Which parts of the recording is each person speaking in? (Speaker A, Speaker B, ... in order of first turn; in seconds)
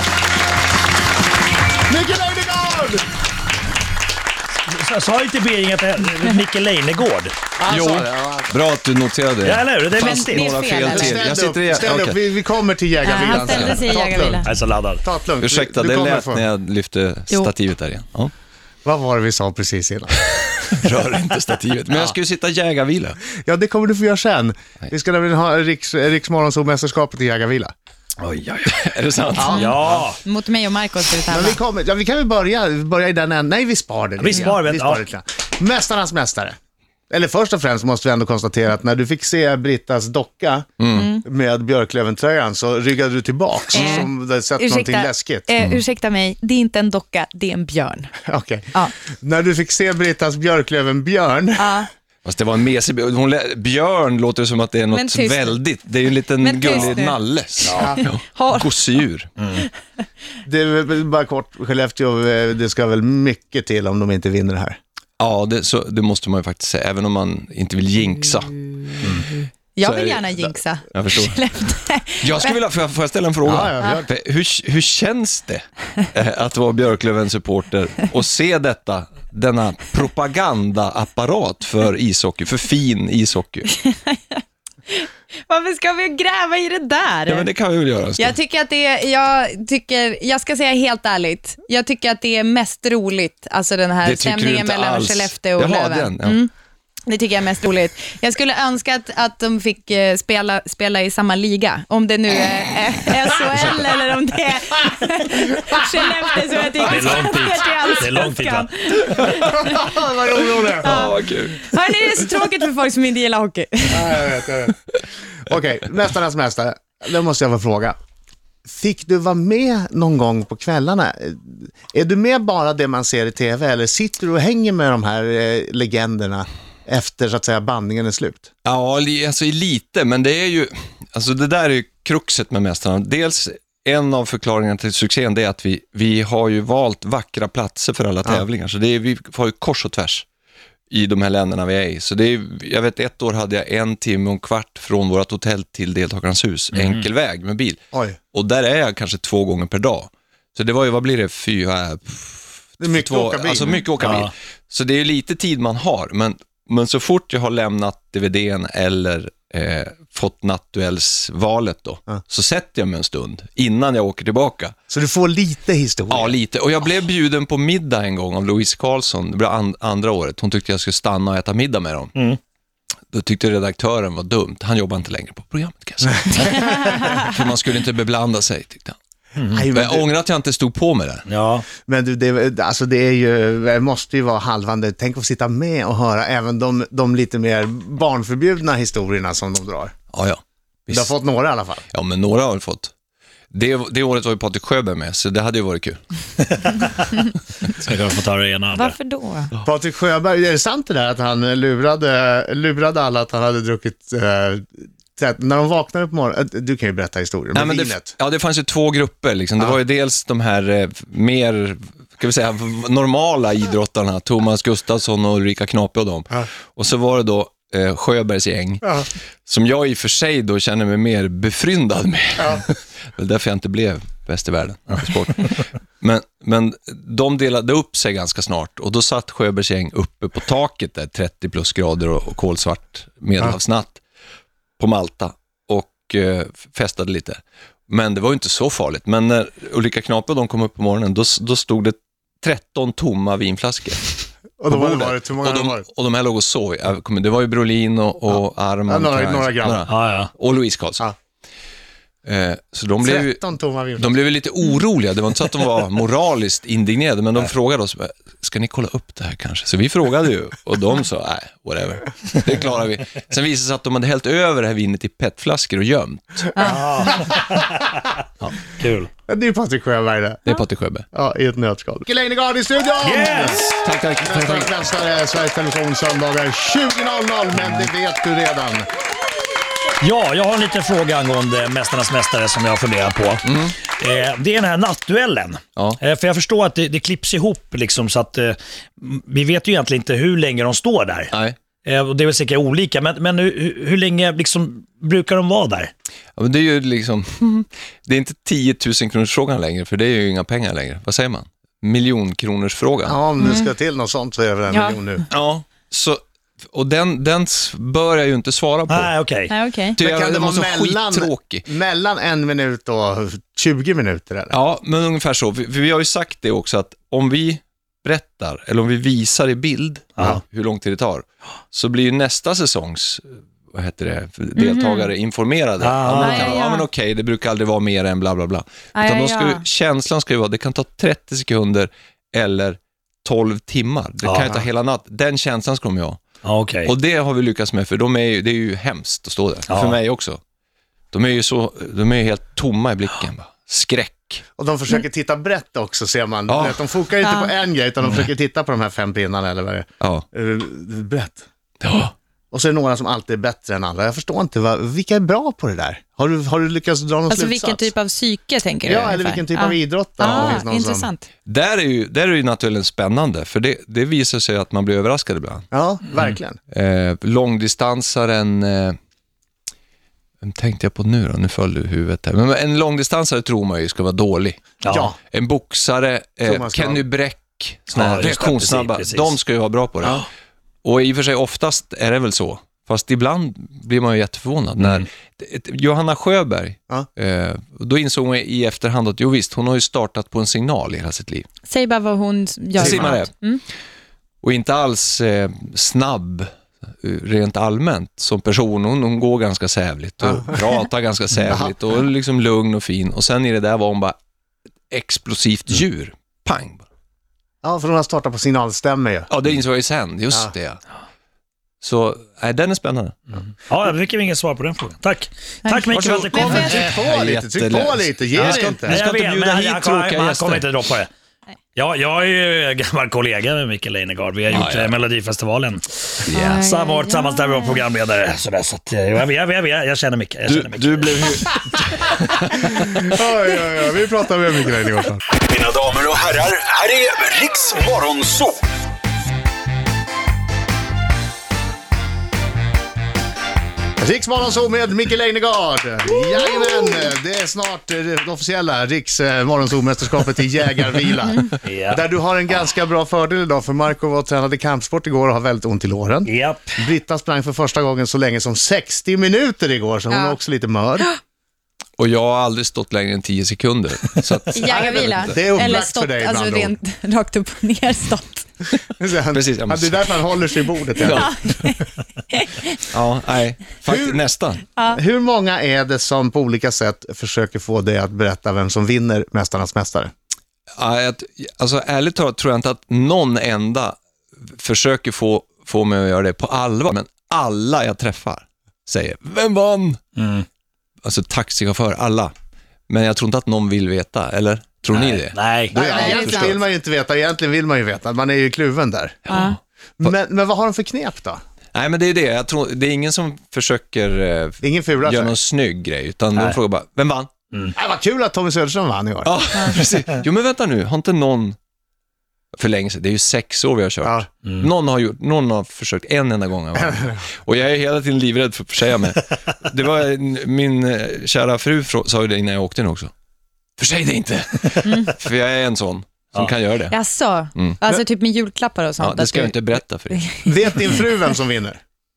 Speaker A: 1.9-3.0, 7.6-8.5, 10.8-14.5, 15.0-16.4, 18.8-20.7, 21.9-22.1, 23.4-27.7, 29.4-30.1, 31.3-36.5, 37.1-40.7, 41.2-45.5, 48.2-51.8, 57.8-58.0, 60.4-64.8, 73.4-74.1, 109.5-111.1, 113.9-114.8, 115.3-118.0, 118.7-128.5, 147.9-148.2, 152.8-154.2, 164.9-166.4, 179.5-180.1, 181.8-189.9, 190.9-191.8, 199.6-208.1, 222.4-222.6, 244.6-245.8, 248.3-249.9, 253.0-254.2, 267.1-267.6, 269.3-270.4, 271.1-278.9, 303.0-305.2, 310.0-314.6, 344.6-351.4, 352.5-357.9, 358.9-361.1, 365.7-366.6, 374.9-375.2, 376.4-377.0, 392.8-393.1, 400.2-400.6, 407.6-409.3, 416.3-419.0, 432.9-435.2, 444.0-461.1, 464.8-466.7, 469.0-471.3, 473.9-474.2, 474.9-480.1, 495.7-499.2, 500.0-501.4, 504.6-505.4, 507.7-509.3, 516.7-517.2, 530.4-531.8
Speaker B: 4.7-7.3, 9.4-10.7, 14.4-15.0, 28.2-28.8, 29.5-30.2, 34.2-35.0, 57.6-57.9, 59.4-59.6, 106.8-108.7, 146.7-147.1, 154.0-154.3, 179.4-179.6, 181.3-181.7, 197.7-198.9, 249.9-250.3, 266.6-267.8, 268.4-269.1, 273.0-273.8, 280.0-291.3, 291.8-295.9, 308.9-309.5, 325.8-326.6, 334.2-334.6, 336.4-336.9, 339.7-340.0, 374.8-375.1, 377.9-379.3, 384.8-385.1, 413.7-416.9, 418.4-421.1, 421.7-431.5, 451.6-452.0, 456.2-456.7, 490.1-490.4, 494.9-495.7
Speaker C: 7.7-12.2, 13.3-13.8, 15.4-18.3, 20.6-23.2, 28.7-29.8, 40.8-41.1, 52.2-59.3, 65.2-68.6, 69.8-71.4, 72.2-83.7, 87.3-88.3, 94.0-96.4, 109.2-109.5, 110.8-112.2, 128.6-140.2, 140.9-147.8, 148.3-164.7, 166.1-172.1, 173.1-179.0, 179.7-181.2, 190.1-191.1, 191.9-192.9, 193.5-196.0, 207.5-234.0, 234.8-244.1, 244.7-251.1, 252.2-253.4, 254.0-266.8, 270.4-271.1, 273.8-274.7, 283.4-283.7, 296.4-303.2, 305.3-306.2, 306.7-309.1, 310.0-311.6, 314.5-336.2, 336.8-340.4, 341.1-344.4, 346.5-346.8, 351.8-352.1, 360.2-360.6, 361.4-365.6, 366.7-369.0, 370.4-374.8, 375.3-380.3, 380.8-391.5, 392.8-393.3, 394.4-404.1, 404.9-406.8, 409.3-410.8, 411.8-413.2, 415.9-420.6, 424.5-424.9, 430.5-433.1, 462.0-465.3, 469.3-470.1, 471.0-471.4, 472.8-474.6, 480.8-490.0, 491.0-492.3, 492.9-496.6, 499.2-500.1, 501.7-507.3, 509.2-511.6, 512.5-523.1, 523.8-526.9, 529.0-530.3
Speaker D: 10.0-11.2, 13.0-14.4, 29.5-31.6, 40.9-41.2, 43.7-48.1, 51.6-51.9, 54.9-55.6, 56.4-57.1, 58.0-58.7, 69.8-72.5, 83.7-87.5, 88.2-96.5, 97.1-110.0, 110.8-114.2, 176.5-177.2, 198.7-199.5, 266.5-266.8, 303.4-303.7, 304.7-305.0, 309.5-310.0, 324.6-325.1, 326.1-326.9, 328.9-329.6, 347.2-347.5, 357.3-361.2, 391.7-393.6, 415.6-416.8, 426.3-427.8, 446.5-446.7, 460.1-460.4, 464.5-468.5, 471.1-472.6, 495.7-496.6, 499.3-499.6, 524.8-525.1, 526.9-529.5, 530.1-530.4
Speaker E: 435.4-438.6